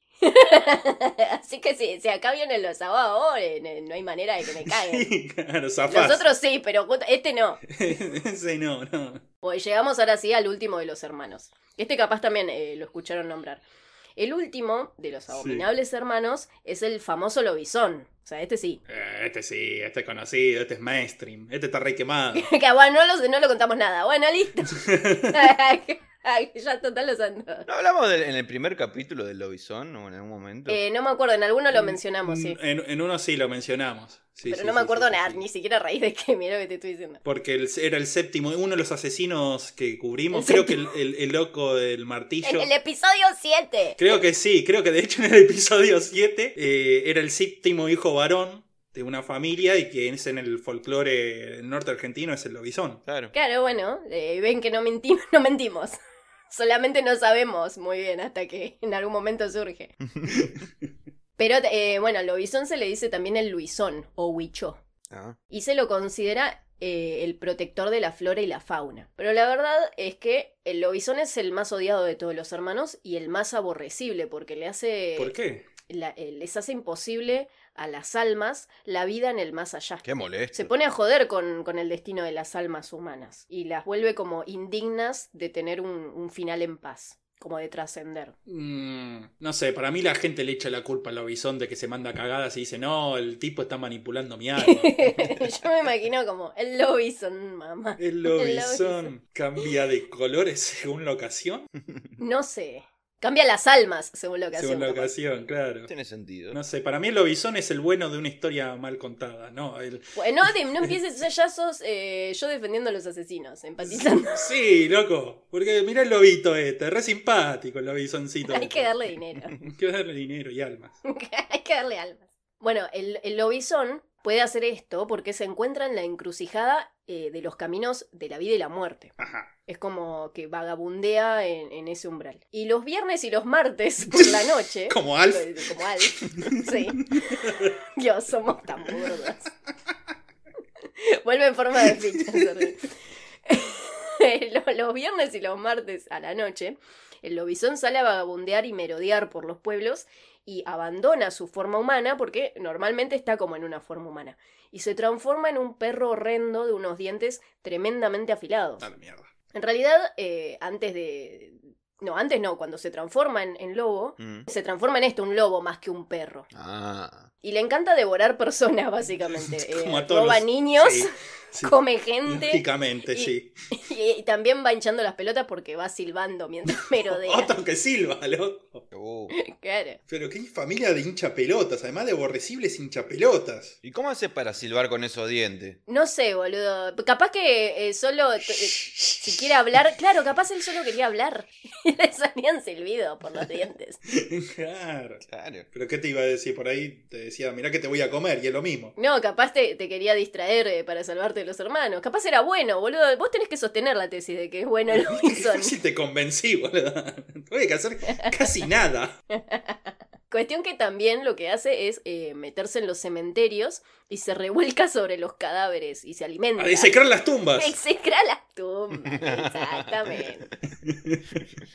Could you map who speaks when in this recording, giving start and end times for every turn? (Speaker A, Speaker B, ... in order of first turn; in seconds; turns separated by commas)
Speaker A: 0.2-5.1, Speaker B: 4.7-6.3, Speaker A: 5.9-7.7, Speaker B: 7.7-9.2, Speaker A: 9.4-13.6, Speaker A: 14.2-18.8, Speaker B: 15.3-15.7, Speaker B: 18.9-22.5, Speaker A: 22.3-27.7, Speaker B: 24.7-25.5, Speaker C: 27.7-30.8, Speaker A: 30.7-32.6, Speaker B: 31.7-35.4, Speaker A: 34.5-37.2, Speaker B: 37.2-42.7, Speaker A: 40.3-40.9, Speaker A: 42.4-44.1, Speaker B: 44.0-53.0, Speaker C: 53.0-53.3, Speaker A: 53.3-56.0, Speaker A: 56.5-59.9, Speaker A: 61.4-64.8, Speaker C: 65.1-65.3, Speaker A: 65.5-75.3, Speaker B: 75.2-75.7, Speaker A: 75.9-88.3, Speaker C: 80.0-80.7, Speaker B: 88.5-95.5, Speaker A: 94.5-99.1, Speaker B: 98.0-101.7, Speaker A: 102.2-105.1, Speaker B: 104.5-105.9, Speaker C: 105.9-106.6, Speaker B: 106.5-110.9, Speaker A: 110.1-114.5, Speaker B: 113.8-118.9, Speaker A: 118.5-119.5, Speaker B: 119.6-121.0, Speaker A: 121.0-129.1, Speaker B: 129.2-129.5, Speaker A: 129.7-139.4, Speaker B: 134.1-137.7, Speaker A: 141.0-142.9, Speaker B: 141.9-142.7, Speaker A: 143.4-158.9, Speaker B: 158.8-159.3, Speaker A: 159.5-166.5, Speaker C: 164.2-164.5, Speaker C: 166.5-167.3, Speaker A: 167.4-171.1, Speaker B: 169.2-173.5, Speaker A: 171.6-177.5, Speaker B: 177.0-178.8, Speaker C: 178.9-179.3, Speaker A: 179.3-180.0, Speaker B: 180.1-183.7, Speaker C: 183.8-185.8, Speaker A: 185.9-194.0, Speaker B: 188.5-189.4, Speaker B: 194.1-198.9, Speaker C: 195.2-195.7, Speaker A: 199.0-205.7, Speaker B: 204.9-209.2, Speaker A: 208.1-208.5, Speaker A: 209.3-216.9, Speaker B: 216.6-217.8, Speaker A: 217.5-220.5, Speaker C: 219.1-220.3, Speaker B: 220.8-221.4